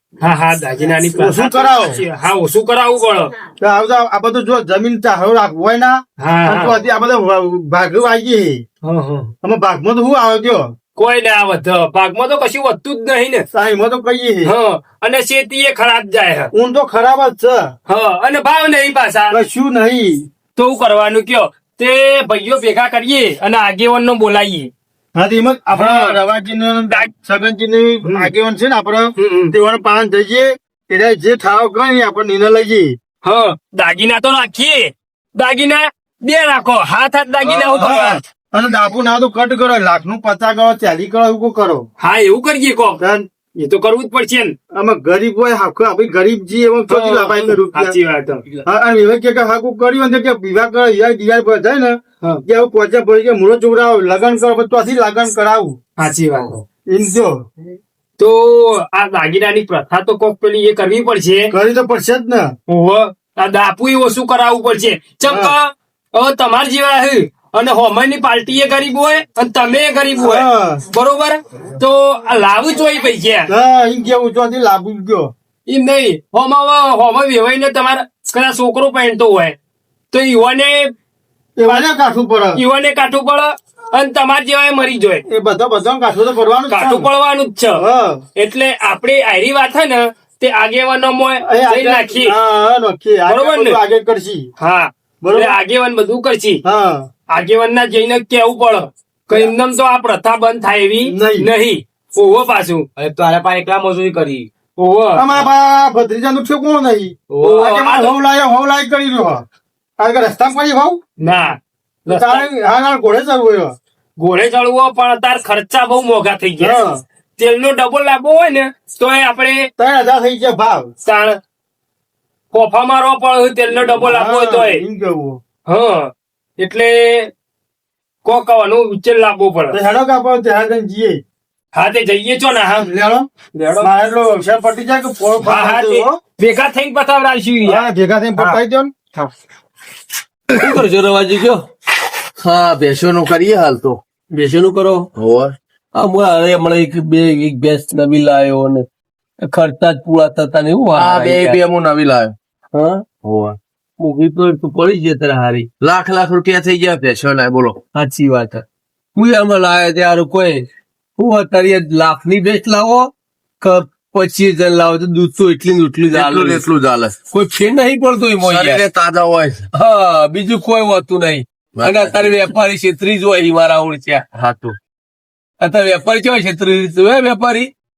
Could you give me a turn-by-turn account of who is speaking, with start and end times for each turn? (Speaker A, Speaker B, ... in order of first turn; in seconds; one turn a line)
Speaker A: 0.2-3.3
Speaker B: 1.2-2.0
Speaker B: 3.6-8.7
Speaker A: 6.2-6.8
Speaker A: 8.8-9.3
Speaker B: 9.4-10.7
Speaker A: 11.0-13.4
Speaker B: 13.5-14.5
Speaker A: 14.4-16.5
Speaker B: 16.5-17.7
Speaker A: 17.9-19.4
Speaker B: 19.3-20.3
Speaker A: 20.6-24.7
Speaker B: 25.1-33.0
Speaker A: 25.7-26.2
Speaker A: 28.0-28.3
Speaker A: 29.2-29.5
Speaker A: 33.2-38.2
Speaker B: 37.7-41.9
Speaker A: 42.0-43.0
Speaker B: 43.0-43.3
Speaker A: 43.5-44.5
Speaker B: 44.7-48.0
Speaker A: 46.9-48.4
Speaker B: 48.6-55.8
Speaker A: 56.0-56.6
Speaker B: 56.9-57.5
Speaker A: 58.2-61.5
Speaker B: 61.5-62.5
Speaker A: 62.7-73.5
Speaker B: 65.2-65.5
Speaker B: 70.2-70.8
Speaker B: 73.5-75.3
Speaker A: 75.7-79.6
Speaker A: 80.1-80.9
Speaker B: 81.6-82.6
Speaker A: 82.5-85.2
Speaker B: 85.3-87.1
Speaker A: 86.7-87.8
Speaker B: 87.8-88.2
Speaker A: 88.4-92.3
Speaker B: 91.5-94.5
Speaker A: 93.3-93.8
Speaker A: 94.6-96.6
Speaker B: 95.2-95.6
Speaker B: 96.6-97.1
Speaker A: 97.3-102.9
Speaker B: 101.1-101.5
Speaker C: 103.0-104.5
Speaker A: 104.8-105.3
Speaker B: 105.2-109.5
Speaker C: 107.3-107.7
Speaker A: 107.4-108.2
Speaker B: 110.0-111.0
Speaker A: 111.2-112.5
Speaker B: 112.1-113.8
Speaker A: 114.2-116.8
Speaker B: 116.6-117.0
Speaker A: 117.4-119.7
Speaker B: 119.8-120.9
Speaker A: 121.0-121.4
Speaker A: 122.5-124.8
Speaker B: 124.0-125.4
Speaker A: 125.7-127.3
Speaker A: 128.2-129.8
Speaker B: 129.7-131.2
Speaker A: 131.7-132.9
Speaker B: 132.8-133.3
Speaker A: 133.5-133.9
Speaker B: 133.8-136.2
Speaker A: 135.4-137.8
Speaker B: 137.7-138.9
Speaker D: 140.5-141.6
Speaker E: 142.4-144.0
Speaker D: 144.3-145.1
Speaker E: 145.2-145.5
Speaker D: 145.9-148.8
Speaker D: 149.5-151.6
Speaker E: 151.0-152.3
Speaker D: 152.7-153.0
Speaker E: 153.2-153.6
Speaker D: 154.0-155.7
Speaker E: 155.8-157.8
Speaker D: 157.9-158.6
Speaker D: 159.2-160.7
Speaker D: 161.2-163.1
Speaker D: 163.6-166.7
Speaker E: 166.1-167.1
Speaker D: 167.3-168.8
Speaker E: 168.4-169.7
Speaker D: 169.7-174.2
Speaker E: 171.8-172.5
Speaker E: 174.3-174.8
Speaker D: 175.6-177.7